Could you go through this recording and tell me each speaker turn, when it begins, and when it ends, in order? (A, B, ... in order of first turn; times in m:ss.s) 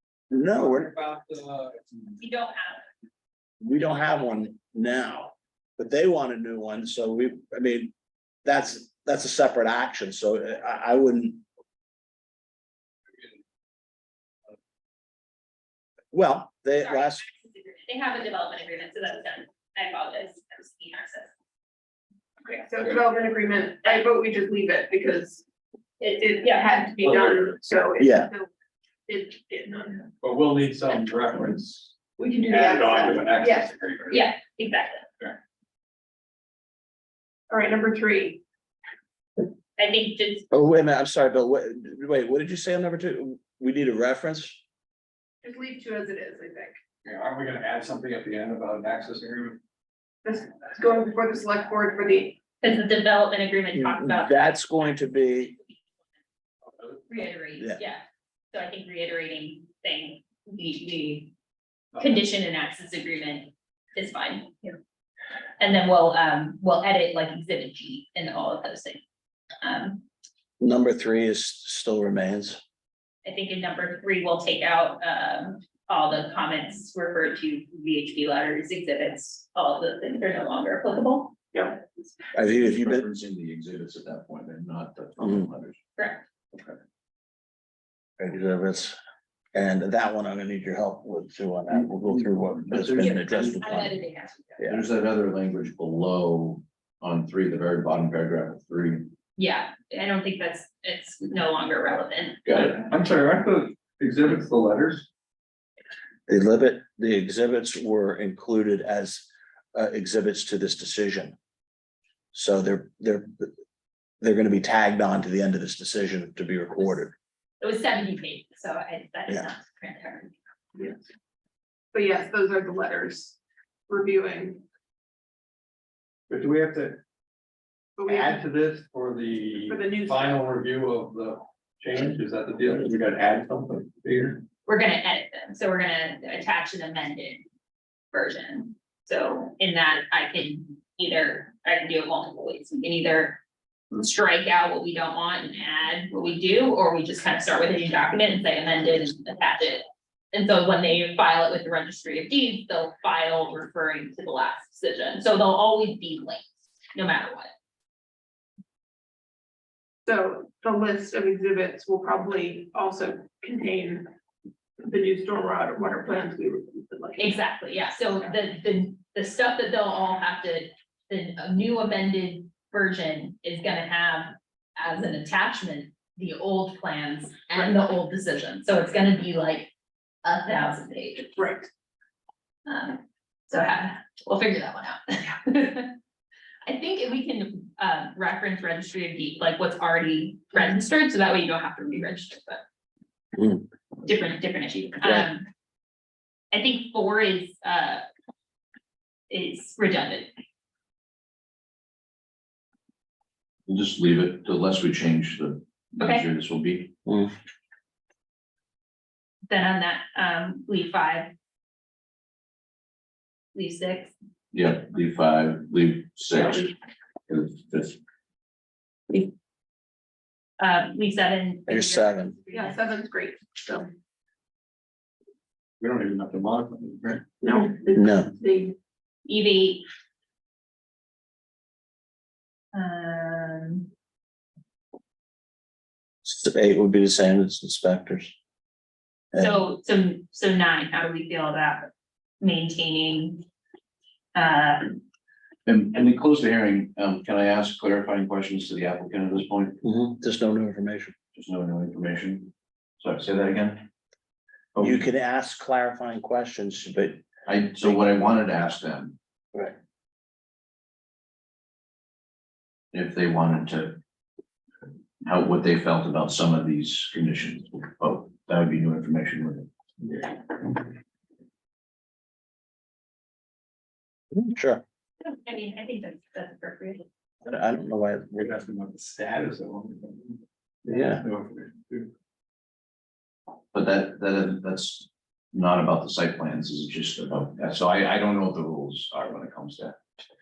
0:00.3-0:00.9 A
0:00.5-0:01.9 B
0:02.2-0:02.9 C
0:03.6-0:07.9 A
0:08.4-0:11.4 A
0:16.1-0:17.2 A
0:16.8-0:21.3 C
0:22.4-0:25.4 D
0:26.0-0:26.7 C
0:26.2-0:28.5 D
0:27.0-0:27.5 B
0:28.0-0:28.3 A
0:29.1-0:30.1 D
0:30.2-0:32.0 B
0:32.2-0:33.7 D
0:32.5-0:34.2 B
0:34.1-0:35.1 C
0:37.5-0:38.4 D
0:39.8-0:40.5 C
0:40.5-0:44.6 A
0:45.4-0:46.8 D
0:47.0-0:49.6 B
0:50.2-0:52.4 D
0:52.6-0:55.9 C
0:53.7-0:55.5 A
0:57.1-1:01.3 C
0:57.6-0:57.8 A
1:02.0-1:04.8 C
1:05.6-1:09.0 C
1:09.6-1:10.0 C
1:10.6-1:12.6 A
1:13.2-1:21.4 C
1:22.3-1:23.0 A
1:22.4-1:25.8 E
1:25.2-1:25.5 A
1:26.0-1:26.2 C
1:28.2-1:29.0 A
1:29.5-1:33.9 A
1:32.7-1:33.7 E
1:33.0-1:34.6 C
1:34.6-1:39.1 E
1:39.4-1:42.8 C
1:42.4-1:45.1 B
1:46.3-1:51.3 A
1:52.3-1:53.5 A
1:54.2-1:57.1 A
1:57.6-2:00.3 C
2:01.9-2:03.4 D
2:03.9-2:04.6 D
2:06.3-2:07.0 B
2:08.0-2:08.4 D
2:08.1-2:14.4 B
2:09.6-2:10.4 D
2:14.6-2:17.4 C
2:18.1-2:23.4 C
2:23.9-2:37.5 C
2:40.0-2:44.1 D
2:44.8-2:47.4 D
2:47.2-2:59.7 C
3:00.2-3:01.4 C
3:01.4-3:01.7 D
3:02.6-3:06.0 C
3:06.6-3:12.6 C
3:13.4-3:13.6 A
3:14.0-3:15.5 C
3:16.5-3:18.0 C
3:19.3-3:20.3 C
3:23.7-3:27.0 E
3:26.0-3:26.2 C
3:27.0-3:27.3 A
3:29.5-3:31.3 C
3:33.5-3:34.1 C
3:34.5-3:36.7 E
3:37.3-3:38.0 E
3:40.6-3:42.8 C
3:41.7-3:42.4 A
3:42.5-3:43.9 D
3:45.8-3:47.3 B
3:47.4-3:48.7 D
3:47.9-3:48.3 A
3:49.2-3:49.9 C
3:52.7-3:53.9 C
3:56.2-3:58.3 A
3:59.3-4:03.4 C
4:04.3-4:05.0 C
4:05.6-4:09.8 E
4:09.8-4:11.1 A
4:11.3-4:13.9 E
4:14.7-4:15.1 E
4:14.8-4:17.2 A
4:17.4-4:19.2 E
4:22.9-4:24.0 E
4:25.2-4:29.7 E
4:34.3-4:34.8 A
4:35.2-4:37.0 C
4:37.4-4:38.6 A
4:38.4-4:40.4 B
4:40.8-4:41.2 A
4:41.2-4:42.1 B
4:43.7-4:50.0 E